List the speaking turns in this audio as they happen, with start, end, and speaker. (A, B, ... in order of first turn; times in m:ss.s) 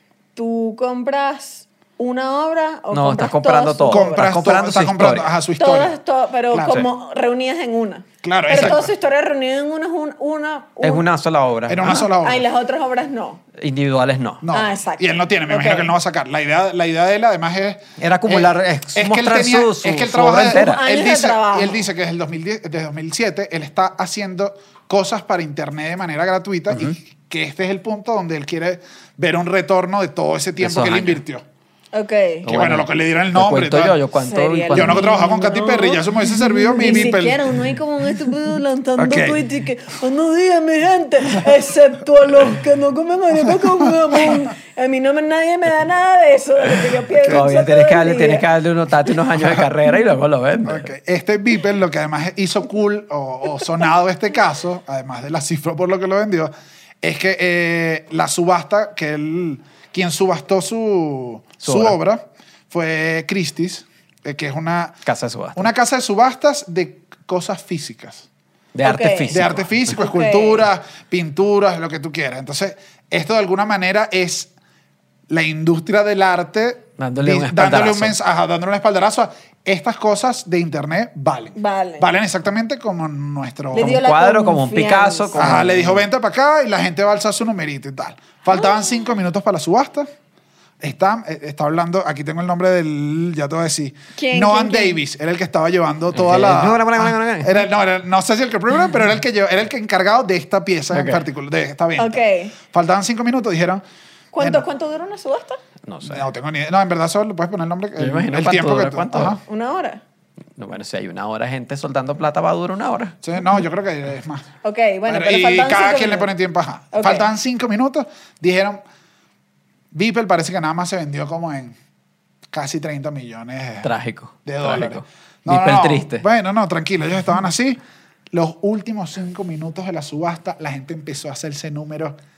0:00.4-0:04.3 A
0:02.9-0:05.3 B
0:03.9-0:05.9 C
0:05.6-0:11.0 A
0:06.5-0:06.8 C
0:08.2-0:08.9 C
0:08.6-0:08.8 B
0:10.8-0:12.0 B
0:11.7-0:12.4 C
0:11.9-0:13.4 A
0:13.6-0:14.4 B
0:14.4-0:31.4 C
0:14.5-0:15.9 A
0:18.0-0:20.8 B
0:20.5-0:21.8 A
0:26.7-0:27.0 B
0:30.6-0:31.2 B
0:31.9-0:32.5 A
0:32.4-0:35.1 B
0:32.4-0:34.0 C
0:34.2-0:48.5 A
0:34.7-0:37.4 C
0:39.0-0:39.4 C
0:47.2-0:50.9 B
0:49.4-0:49.7 C
0:50.6-1:05.0 C
1:01.6-1:02.0 B
1:05.1-1:05.7 B
1:05.6-1:08.3 C
1:08.7-1:09.9 B
1:08.8-1:09.4 A
1:09.3-1:14.5 C
1:09.9-1:10.6 A
1:15.3-1:24.0 C
1:17.0-1:18.1 B
1:21.6-1:22.1 A
1:23.7-1:25.5 A
1:23.7-1:26.0 B
1:25.4-1:30.1 C
1:28.6-1:29.0 A
1:30.8-1:43.8 C
1:34.2-1:35.0 A
1:36.1-1:37.6 B
1:40.9-1:41.2 B
1:42.0-1:42.6 A
1:44.3-1:45.6 A
1:44.4-1:44.6 C
1:45.9-1:46.2 B
1:46.1-1:49.4 C
1:48.0-1:49.4 B
1:49.4-1:50.0 A
1:50.6-1:53.2 B
1:53.2-1:54.5 C
1:54.6-1:56.3 A
1:55.1-1:58.8 C
1:56.9-1:57.3 A
1:59.9-2:01.8 C
2:02.5-2:03.9 C
2:03.8-2:06.2 B
2:04.4-2:07.8 C
2:08.3-2:12.2 C